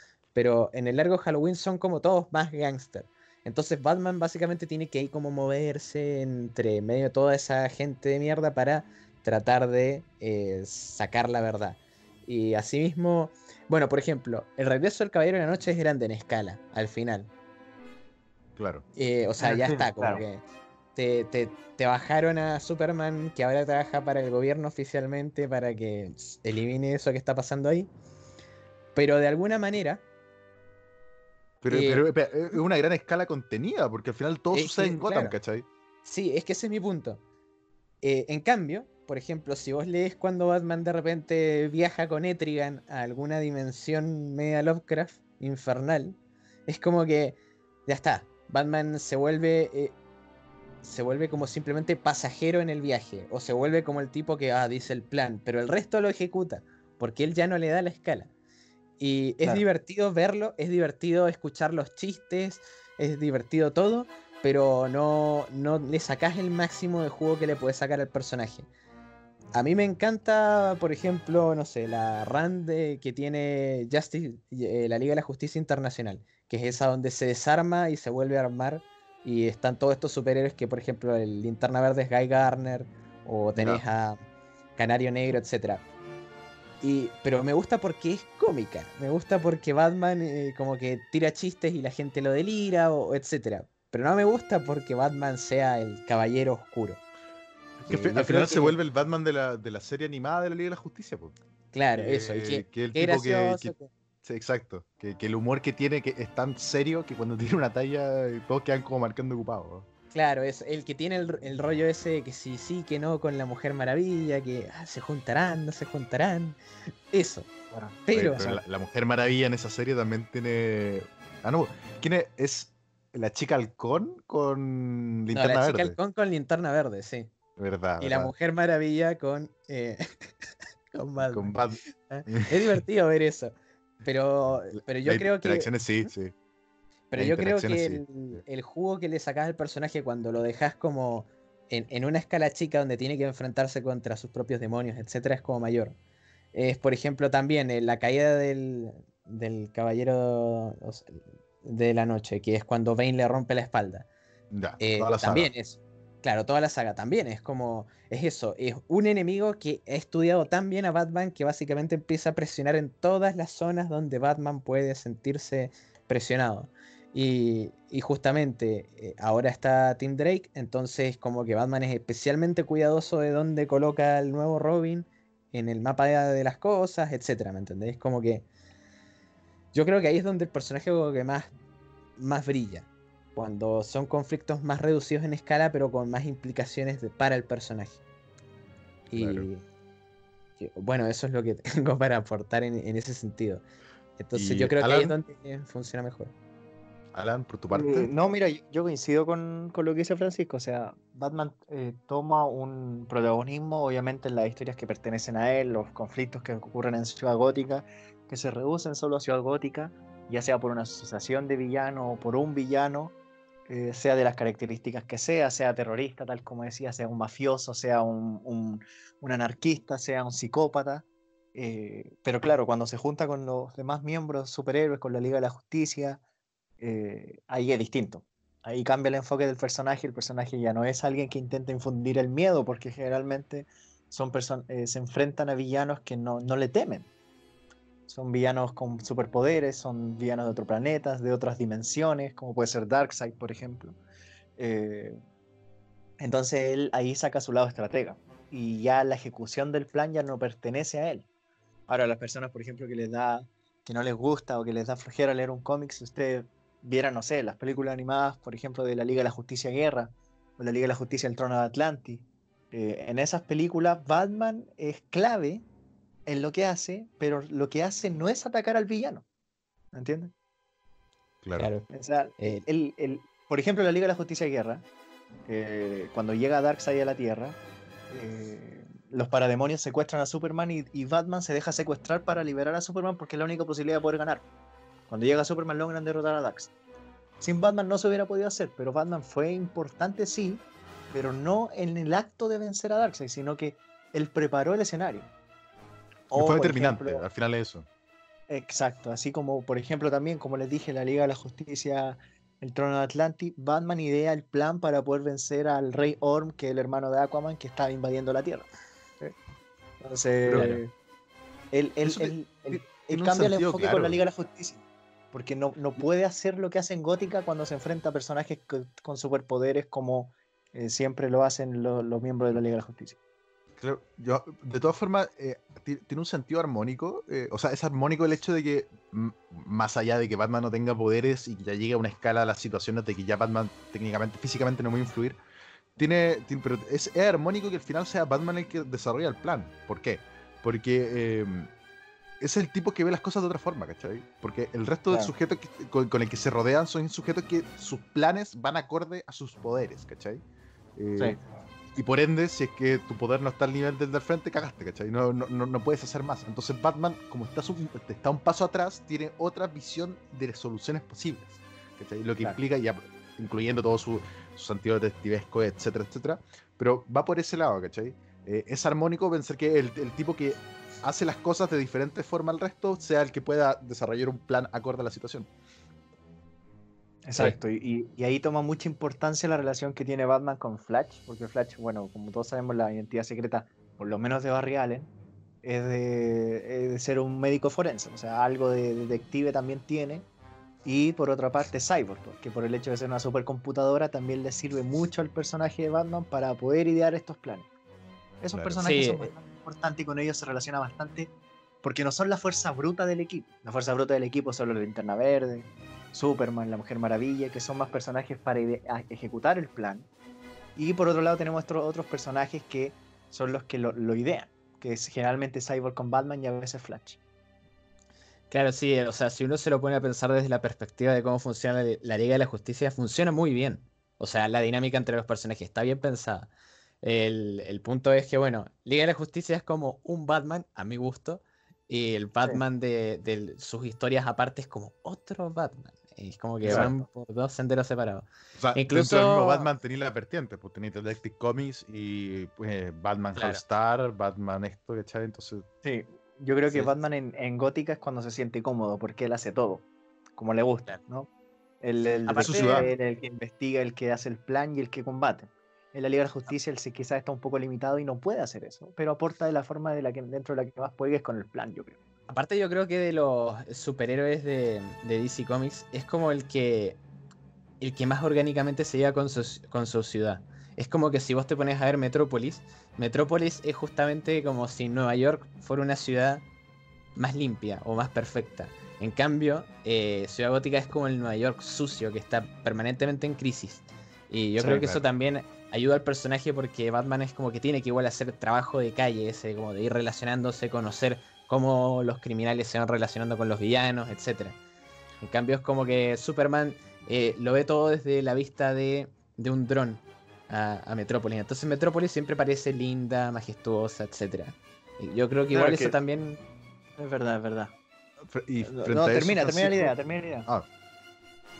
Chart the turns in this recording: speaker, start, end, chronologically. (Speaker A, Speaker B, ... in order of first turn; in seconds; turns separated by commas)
Speaker A: 0.3-17.3, Speaker B: 18.6-18.8, Speaker A: 19.0-20.4, Speaker C: 19.4-20.2, Speaker A: 20.9-27.9, Speaker A: 28.9-30.0, Speaker B: 31.6-35.7, Speaker A: 31.7-32.0, Speaker A: 34.5-35.4, Speaker A: 36.0-37.2, Speaker A: 38.0-47.4, Speaker A: 47.9-50.0, Speaker A: 50.8-58.3, Speaker A: 59.0-68.7, Speaker A: 69.6-84.2, Speaker B: 83.6-83.8, Speaker A: 84.8-85.8, Speaker A: 86.8-97.0, Speaker B: 97.9-101.4, Speaker A: 97.9-98.8, Speaker A: 101.7-103.9, Speaker B: 101.9-109.9, Speaker A: 110.1-116.6, Speaker A: 117.1-117.5, Speaker A: 118.1-118.6, Speaker B: 118.1-126.0, Speaker A: 125.3-127.3, Speaker B: 127.6-128.3, Speaker A: 128.0-130.3, Speaker A: 130.9-131.5, Speaker B: 131.2-132.8, Speaker A: 132.1-133.5, Speaker A: 134.0-135.7, Speaker B: 134.7-136.3, Speaker A: 137.1-146.0, Speaker B: 137.2-138.4, Speaker A: 146.5-154.1, Speaker B: 154.5-155.5, Speaker A: 154.8-178.5, Speaker A: 179.7-181.5, Speaker A: 182.2-188.0, Speaker A: 189.1-189.6, Speaker B: 189.2-189.5, Speaker A: 190.6-193.6, Speaker A: 194.2-196.3, Speaker B: 194.3-195.2, Speaker B: 197.1-198.1, Speaker C: 197.7-213.1, Speaker C: 213.7-226.2, Speaker C: 226.8-237.1, Speaker C: 238.1-244.0, Speaker C: 244.6-245.2, Speaker C: 246.2-251.3, Speaker C: 251.9-265.6, Speaker C: 266.3-269.2, Speaker C: 269.9-270.3, Speaker B: 271.4-271.7, Speaker A: 271.6-271.9, Speaker C: 271.9-274.9, Speaker A: 272.4-272.6, Speaker C: 275.5-277.6, Speaker C: 278.1-284.4, Speaker C: 285.1-286.7, Speaker C: 287.4-295.3, Speaker C: 296.3-297.2, Speaker B: 296.3-297.9, Speaker C: 298.5-308.7, Speaker C: 310.0-310.9, Speaker B: 310.5-310.8, Speaker C: 311.7-323.2, Speaker B: 312.1-314.2, Speaker B: 323.8-335.4, Speaker B: 336.0-341.7, Speaker B: 342.4-350.4, Speaker B: 351.0-351.4, Speaker B: 351.9-375.5, Speaker C: 377.3-385.1, Speaker C: 385.6-390.3, Speaker C: 390.9-397.7, Speaker C: 398.4-401.3, Speaker B: 398.5-398.8, Speaker A: 398.8-399.3, Speaker C: 401.8-410.1, Speaker C: 410.8-417.2, Speaker A: 418.5-426.5, Speaker A: 427.0-439.7, Speaker B: 436.6-436.9, Speaker C: 436.6-437.0, Speaker B: 438.6-445.7, Speaker A: 443.4-443.6, Speaker C: 445.8-449.9, Speaker C: 450.4-451.3, Speaker C: 451.8-462.0, Speaker A: 452.3-452.9, Speaker B: 452.4-452.9, Speaker A: 462.3-467.0, Speaker A: 467.8-476.5, Speaker A: 477.2-494.6, Speaker C: 484.6-484.9, Speaker A: 495.2-506.4, Speaker C: 505.5-506.0, Speaker C: 507.0-507.8, Speaker B: 508.3-509.9, Speaker C: 508.6-510.5